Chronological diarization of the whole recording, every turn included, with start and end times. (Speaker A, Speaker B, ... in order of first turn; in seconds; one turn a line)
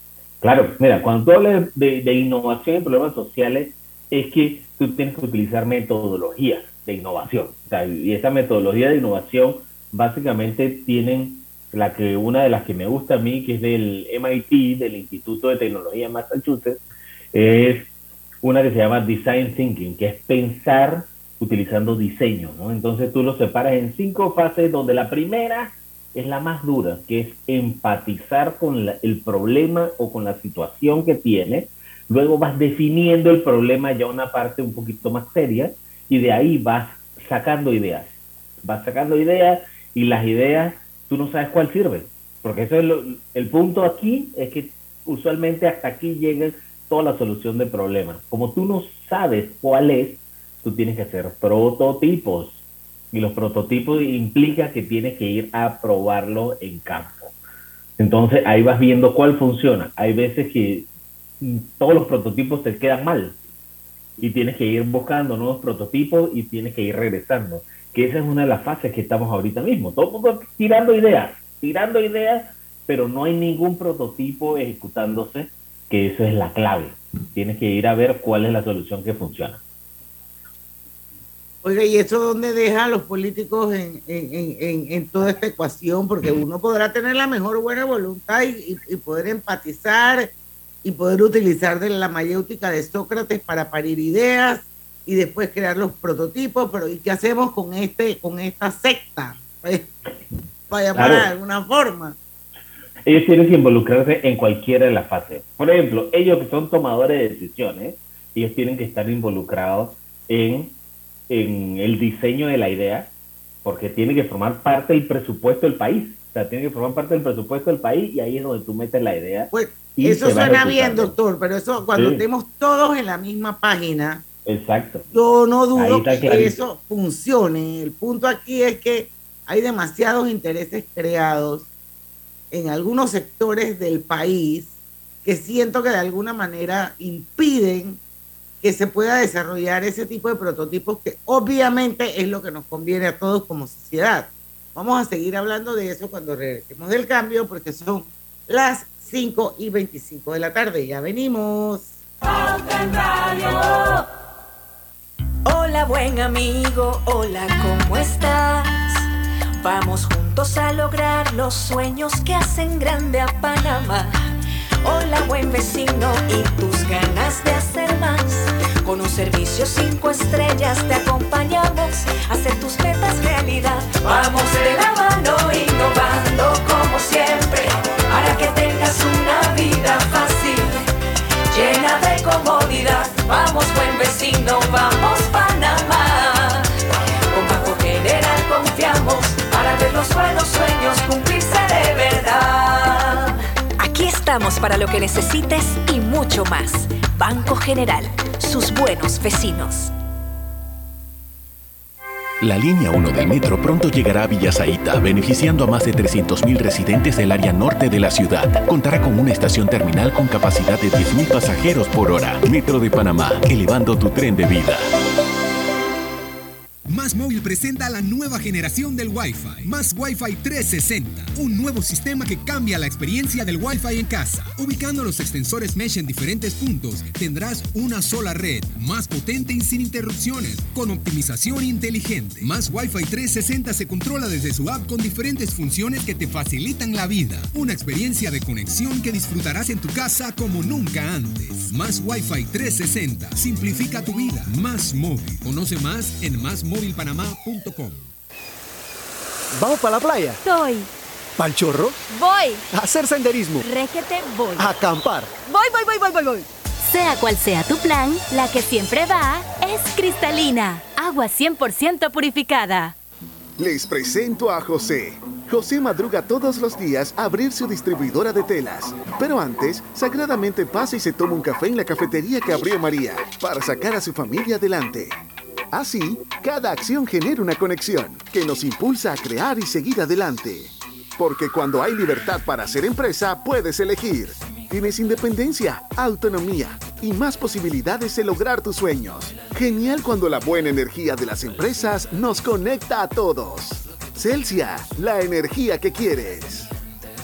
Speaker A: 0.4-16.8
Speaker A: 17.3-17.9
Speaker A: 18.4-57.3
Speaker A: 58.0-60.9
Speaker A: 61.4-63.4
Speaker A: 64.2-79.6
Speaker B: 81.6-90.3
Speaker B: 90.8-99.9
Speaker B: 100.7-102.2
Speaker A: 101.0-101.3
Speaker A: 103.1-110.8
Speaker A: 111.3-113.1
Speaker A: 113.6-121.2
Speaker B: 119.5-124.2
Speaker A: 122.0-122.2
Speaker A: 124.5-125.1
Speaker B: 125.1-131.7
Speaker A: 125.8-126.6
Speaker B: 132.5-138.0
Speaker B: 138.6-151.9
Speaker C: 152.8-153.9
Speaker C: 155.5-159.1
Speaker C: 159.6-164.1
Speaker C: 164.8-180.8
Speaker C: 181.5-186.7
Speaker C: 187.3-199.9
Speaker D: 202.4-214.9
Speaker E: 216.9-248.1
Speaker F: 249.5-250.4
Speaker G: 250.4-250.9
Speaker F: 251.4-252.0
Speaker G: 252.2-252.6
Speaker F: 252.7-253.6
Speaker G: 253.6-254.7
Speaker F: 254.6-255.3
Speaker G: 256.8-262.9
Speaker H: 263.6-275.2
Speaker H: 275.7-296.7